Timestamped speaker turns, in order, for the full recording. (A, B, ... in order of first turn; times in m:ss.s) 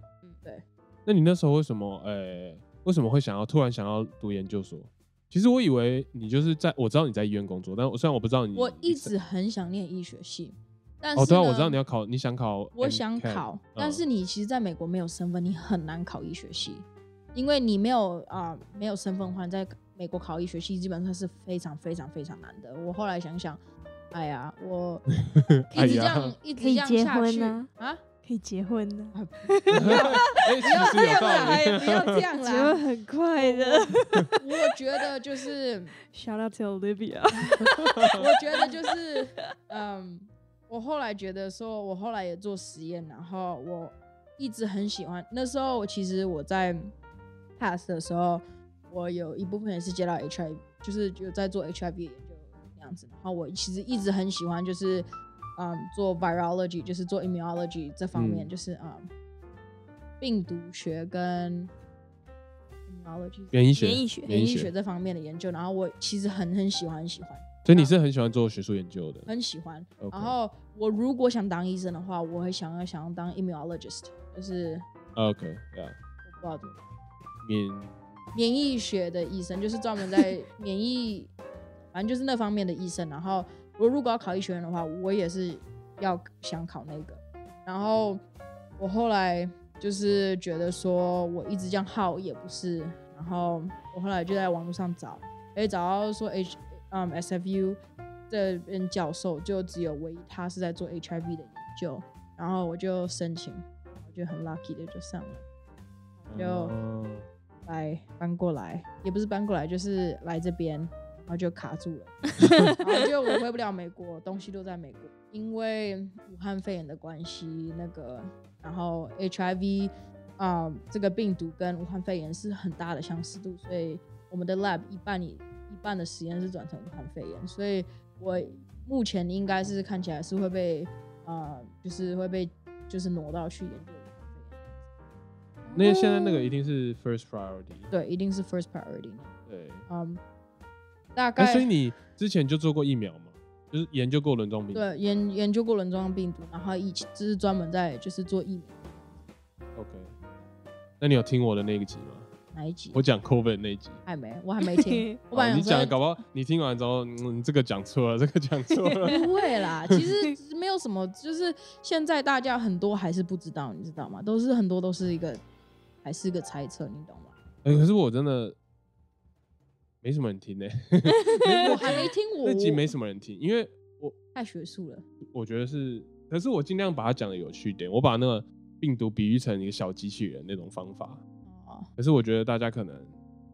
0:01.1-0:09.1 A
0:08.6-0:11.8 B
0:11.2-0:14.0 A
0:12.8-0:23.6 B
0:24.1-0:25.0 B
0:25.4-0:26.4 A
0:25.7-0:28.0 B
0:26.6-0:27.7 C
0:28.2-0:34.5 C
0:29.1-0:32.8 B
0:29.7-0:32.2 A
0:33.3-0:35.9 B
0:36.1-0:38.8 C
0:37.4-0:46.9 B
0:38.0-0:38.3 A
0:47.6-0:59.1 B
0:58.1-0:58.5 A
1:00.2-1:01.7 B
1:02.9-1:03.6 B
1:03.5-1:04.7 A
1:03.8-1:04.3 C
1:04.3-1:08.0 B
1:07.6-1:09.3 A
1:09.3-1:14.8 B
1:10.0-1:10.4 A
1:15.2-1:16.0 A
1:16.2-1:16.8 B
1:17.4-1:18.2 A
1:18.3-1:21.3 B
1:21.9-1:28.2 B
1:28.8-1:37.8 B
1:38.3-1:45.4 B
1:46.2-1:46.8 B
1:46.3-1:47.3 A
1:47.7-2:14.7 B
1:52.4-1:52.8 C
2:15.7-2:16.5 C
2:15.8-2:17.9 A
2:17.9-2:19.3 B
2:19.5-2:19.9 A
2:19.9-2:20.2 B
2:21.2-2:21.7 B
2:21.4-2:24.9 A
2:24.7-2:29.2 B
2:29.8-2:30.1 A
2:31.0-2:32.3 A
2:32.5-2:33.0 B
2:32.9-2:34.0 A
2:34.1-2:36.0 B
2:34.8-2:35.2 C
2:35.3-2:39.2 A
2:38.9-2:39.3 C
2:39.1-2:45.4 B
2:40.0-2:40.3 C
2:46.0-2:47.3 B
2:47.6-2:48.6 A
2:50.0-2:54.2 A
2:51.2-2:52.1 C
2:51.6-2:52.9 B
2:54.4-2:55.0 B
2:55.3-3:01.2 A
3:01.5-3:01.9 B
3:02.0-3:03.1 A